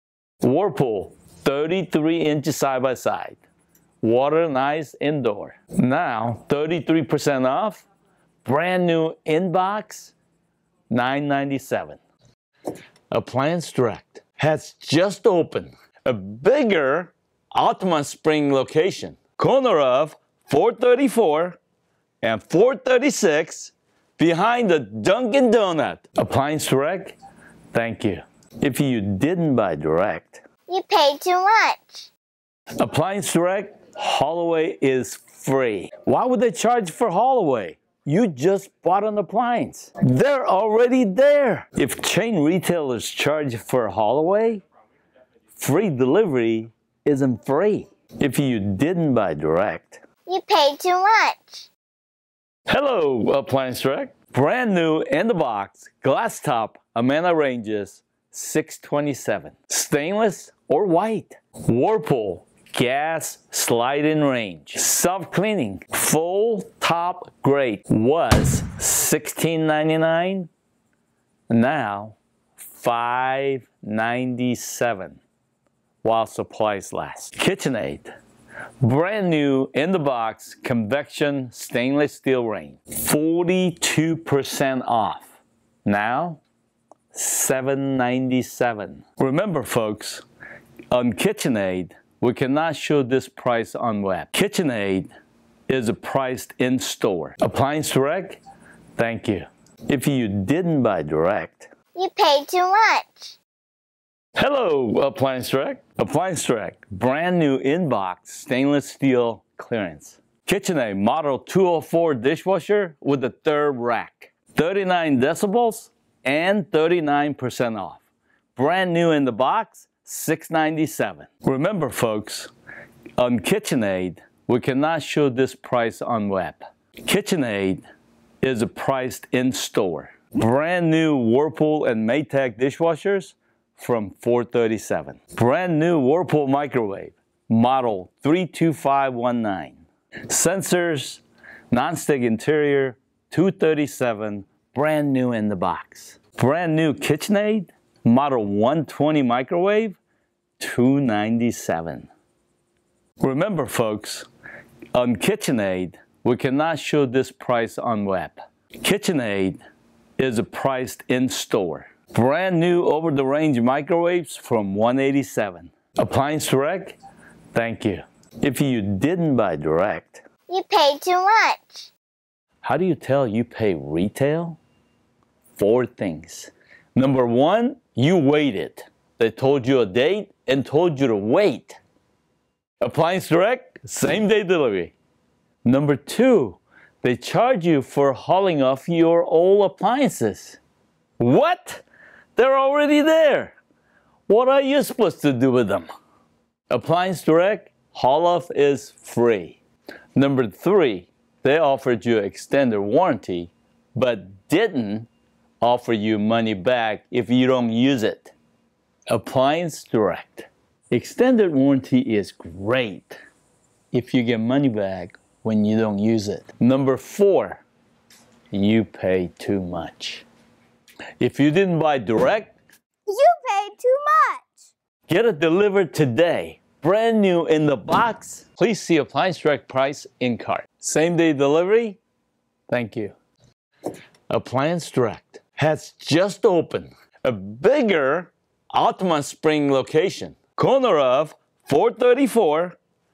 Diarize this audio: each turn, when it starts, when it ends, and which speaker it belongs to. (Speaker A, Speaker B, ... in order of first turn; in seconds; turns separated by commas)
Speaker A: 0.4-3.4, Speaker A: 4.0-7.8, Speaker A: 8.4-10.2, Speaker A: 10.9-12.0, Speaker A: 13.1-21.6, Speaker A: 22.2-27.2, Speaker A: 27.7-30.4, Speaker B: 30.7-32.1, Speaker A: 32.8-44.6, Speaker A: 45.5-50.0, Speaker B: 50.3-51.7, Speaker A: 52.7-70.5, Speaker A: 71.5-75.2, Speaker A: 76.0-78.1, Speaker A: 78.8-85.3, Speaker A: 85.8-86.4, Speaker A: 87.1-90.2, Speaker A: 90.9-95.1, Speaker A: 95.7-98.4, Speaker A: 99.0-101.7, Speaker B: 101.9-103.4, Speaker A: 104.4-118.0, Speaker A: 118.6-122.5, Speaker A: 123.2-127.8, Speaker A: 128.4-150.0, Speaker A: 150.6-152.1, Speaker A: 153.2-154.3, Speaker A: 154.9-159.6, Speaker A: 160.2-167.0, Speaker A: 167.5-170.2, Speaker B: 170.5-171.9, Speaker A: 172.6-174.6, Speaker A: 175.5-181.8, Speaker A: 182.8-184.9, Speaker A: 185.6-190.6, Speaker A: 191.2-191.8, Speaker A: 192.4-193.6, Speaker A: 194.3-195.9, Speaker A: 196.7-199.6, Speaker A: 200.2-205.1, Speaker A: 205.6-208.3, Speaker A: 209.1-213.2, Speaker A: 213.9-217.6, Speaker A: 218.5-220.2, Speaker A: 221.2-222.5, Speaker B: 223.1-224.5, Speaker A: 225.1-232.0, Speaker A: 232.7-233.2, Speaker A: 234.3-242.8